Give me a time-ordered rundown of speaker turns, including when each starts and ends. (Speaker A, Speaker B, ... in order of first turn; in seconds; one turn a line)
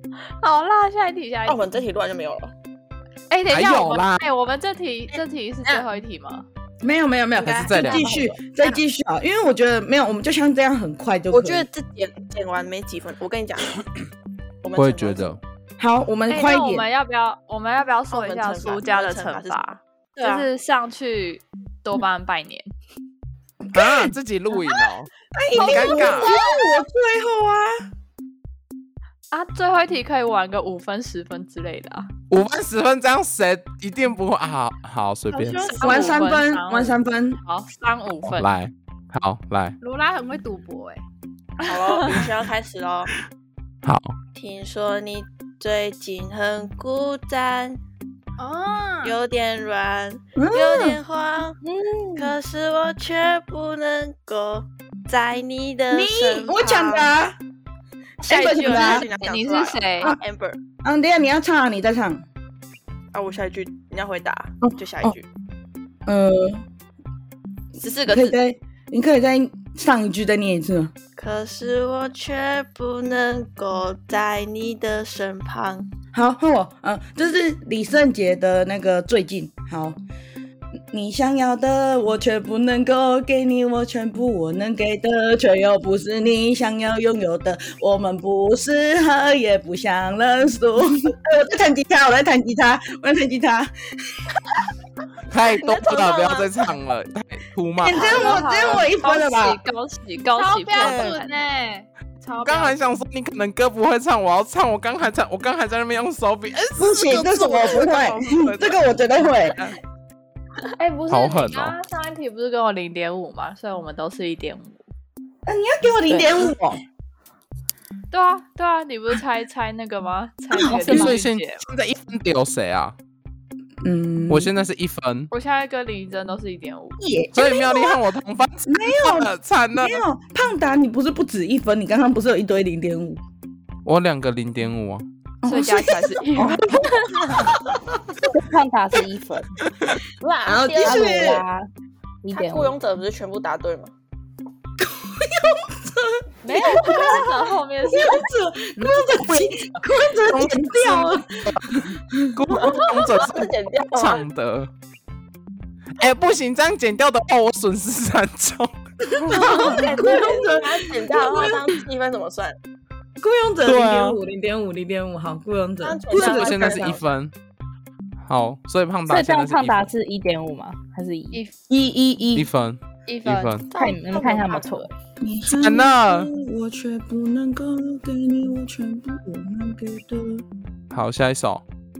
Speaker A: 0.4-1.7
Speaker B: 1.4-2.5
Speaker A: 3.3-6.5
Speaker C: 3.5-4.2
Speaker B: 5.2-5.9
Speaker D: 6.8-11.7
Speaker B: 7.3-8.8
Speaker C: 7.6-8.1
Speaker B: 11.3-13.8
Speaker B: 14.6-15.4
Speaker C: 14.7-15.4
Speaker D: 15.8-16.9
Speaker A: 16.3-19.7
Speaker B: 18.1-20.5
Speaker A: 20.2-22.7
Speaker D: 23.7-24.1
Speaker C: 23.7-26.3
Speaker D: 25.3-27.9
Speaker A: 25.6-26.6
Speaker A: 29.3-32.1
Speaker C: 32.3-36.0
Speaker A: 35.3-38.5
Speaker D: 35.8-37.4
Speaker C: 38.2-39.8
Speaker E: 39.8-41.0
Speaker A: 41.6-42.3
Speaker B: 41.6-43.1
Speaker C: 43.8-44.1
Speaker B: 44.3-47.8
Speaker E: 48.4-49.2
Speaker B: 49.0-51.6
Speaker D: 50.4-51.0
Speaker F: 51.7-52.3
Speaker B: 52.1-57.1
Speaker D: 55.9-57.4
Speaker D: 58.2-59.1
Speaker B: 58.2-60.6
Speaker A: 58.4-60.1
Speaker D: 60.8-62.2
Speaker B: 63.1-65.2
Speaker D: 64.6-65.2
Speaker D: 66.0-66.7
Speaker B: 67.8-68.3
Speaker D: 68.1-70.9
Speaker B: 71.2-75.9
Speaker D: 76.1-80.0
Speaker D: 80.9-94.2
Speaker C: 95.3-98.5
Speaker B: 95.6-96.7
Speaker D: 97.8-99.6
Speaker A: 97.9-101.3
Speaker E: 100.3-102.8
Speaker C: 100.7-101.2
Speaker C: 102.4-109.8
Speaker D: 106.8-109.6
Speaker A: 110.8-114.8
Speaker C: 111.1-111.8
Speaker D: 115.5-116.8
Speaker F: 116.1-116.5
Speaker A: 118.1-121.6
Speaker D: 120.5-121.0
Speaker C: 120.7-122.9
Speaker D: 123.8-124.5
Speaker C: 124.3-125.3
Speaker A: 125.3-127.0
Speaker D: 127.0-128.0
Speaker C: 127.3-130.0
Speaker D: 128.7-133.2
Speaker C: 133.8-135.0
Speaker D: 135.4-138.0
Speaker A: 135.4-137.4
Speaker F: 138.3-139.5
Speaker B: 140.2-141.4
Speaker D: 140.4-141.4
Speaker F: 140.8-141.7
Speaker F: 142.2-142.7
Speaker B: 142.3-143.9
Speaker D: 144.8-152.4
Speaker B: 146.5-147.2
Speaker A: 146.5-148.3
Speaker C: 148.8-151.8
Speaker C: 152.3-154.7
Speaker B: 152.5-154.3
Speaker C: 156.0-158.7
Speaker D: 159.1-161.7
Speaker B: 159.3-162.6
Speaker A: 159.5-159.7
Speaker D: 163.2-167.0
Speaker C: 163.6-164.2
Speaker B: 165.8-167.0
Speaker C: 166.1-167.3
Speaker C: 168.2-169.9
Speaker F: 169.1-171.4
Speaker D: 171.7-172.5
Speaker C: 172.3-173.7
Speaker A: 173.1-173.6
Speaker B: 173.7-174.8
Speaker F: 173.7-174.9
Speaker D: 175.2-180.4
Speaker C: 175.5-176.3
Speaker C: 180.9-181.6